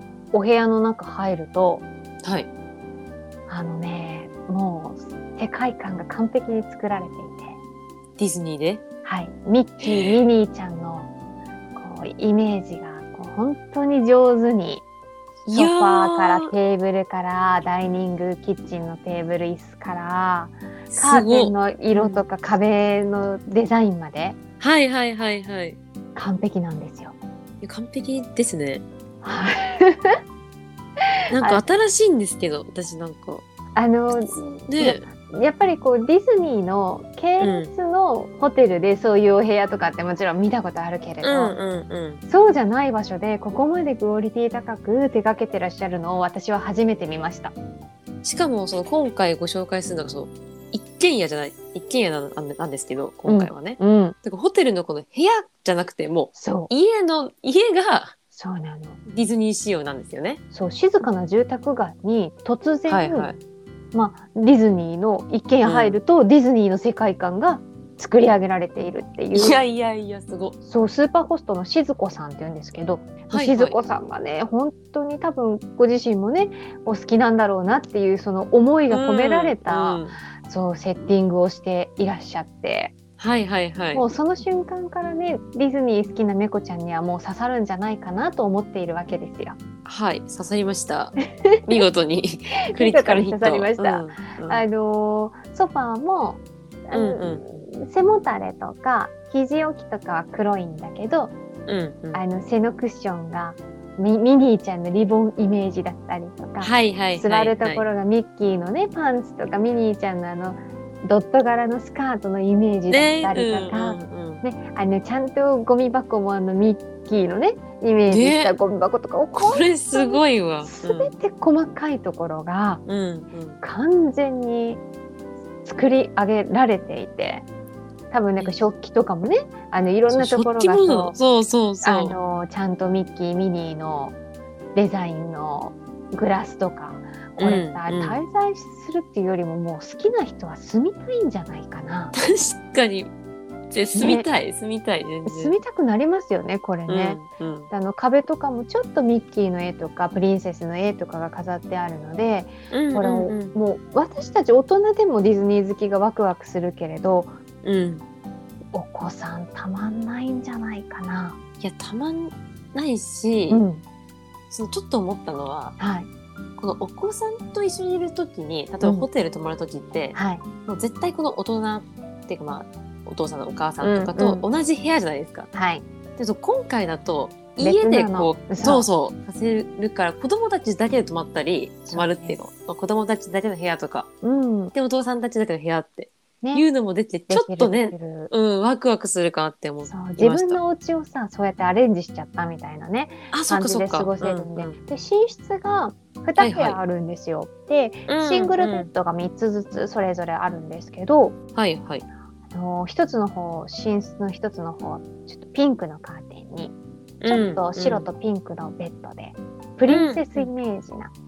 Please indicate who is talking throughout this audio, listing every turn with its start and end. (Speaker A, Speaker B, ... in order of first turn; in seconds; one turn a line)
Speaker A: 0.3-1.8
Speaker B: 2.2-2.5
Speaker A: 3.5-7.6
Speaker B: 8.2-8.8
Speaker A: 9.0-11.1
Speaker B: 9.8-10.2
Speaker A: 11.8-14.8
Speaker A: 15.5-24.4
Speaker B: 15.5-16.5
Speaker B: 20.9-22.2
Speaker B: 24.6-25.8
Speaker A: 26.1-27.1
Speaker B: 27.6-28.8
Speaker A: 29.2-30.2
Speaker B: 31.3-33.4
Speaker A: 31.4-31.6
Speaker A: 33.8-41.6
Speaker B: 34.1-35.1
Speaker B: 37.4-37.7
Speaker B: 41.2-42.2
Speaker A: 42.3-47.5
Speaker B: 48.2-58.1
Speaker A: 53.3-54.1
Speaker A: 56.3-56.7
Speaker A: 58.3-59.0
Speaker B: 59.0-60.4
Speaker A: 60.5-63.3
Speaker B: 62.9-63.4
Speaker A: 63.9-69.6
Speaker B: 65.6-66.0
Speaker B: 69.3-70.6
Speaker A: 70.6-82.9
Speaker B: 73.3-73.8
Speaker B: 78.9-80.2
Speaker B: 83.2-84.0
Speaker A: 83.9-89.6
Speaker B: 89.8-94.7
Speaker A: 91.5-91.8
Speaker A: 92.7-101.3
Speaker B: 96.9-97.6
Speaker B: 101.7-102.2
Speaker A: 102.1-122.8
Speaker B: 106.6-107.8
Speaker B: 112.9-114.4
Speaker B: 118.1-118.5
Speaker B: 119.4-121.1
Speaker B: 122.8-123.6
Speaker A: 123.6-124.8
Speaker A: 125.6-127.4
Speaker A: 128.1-131.2
Speaker B: 128.4-128.7
Speaker B: 130.1-132.2
Speaker A: 131.8-134.1
Speaker A: 134.7-142.1
Speaker B: 137.4-138.2
Speaker B: 142.1-143.1
Speaker B: 143.7-145.6
Speaker A: 143.9-144.3
Speaker A: 145.2-157.3
Speaker B: 146.9-147.7
Speaker B: 152.7-153.5
Speaker B: 157.6-158.0
Speaker A: 158.7-161.4
Speaker B: 161.6-163.6
Speaker A: 163.5-163.8
Speaker B: 164.5-165.8
Speaker A: 165.8-166.1
Speaker B: 166.6-175.5
Speaker A: 168.8-169.1
Speaker A: 170.1-170.4
Speaker A: 173.8-174.4
Speaker A: 175.5-175.8
Speaker B: 176.2-184.1
Speaker A: 177.6-178.8
Speaker A: 181.9-182.4
Speaker A: 184.2-184.7
Speaker B: 184.7-190.6
Speaker A: 186.4-186.7
Speaker A: 187.3-188.3
Speaker A: 189.8-201.4
Speaker B: 193.3-194.8
Speaker B: 196.4-196.8
Speaker B: 198.1-198.9
Speaker B: 201.5-202.0
Speaker A: 202.5-206.7
Speaker B: 207.2-208.1
Speaker A: 207.2-211.1
Speaker B: 209.9-210.5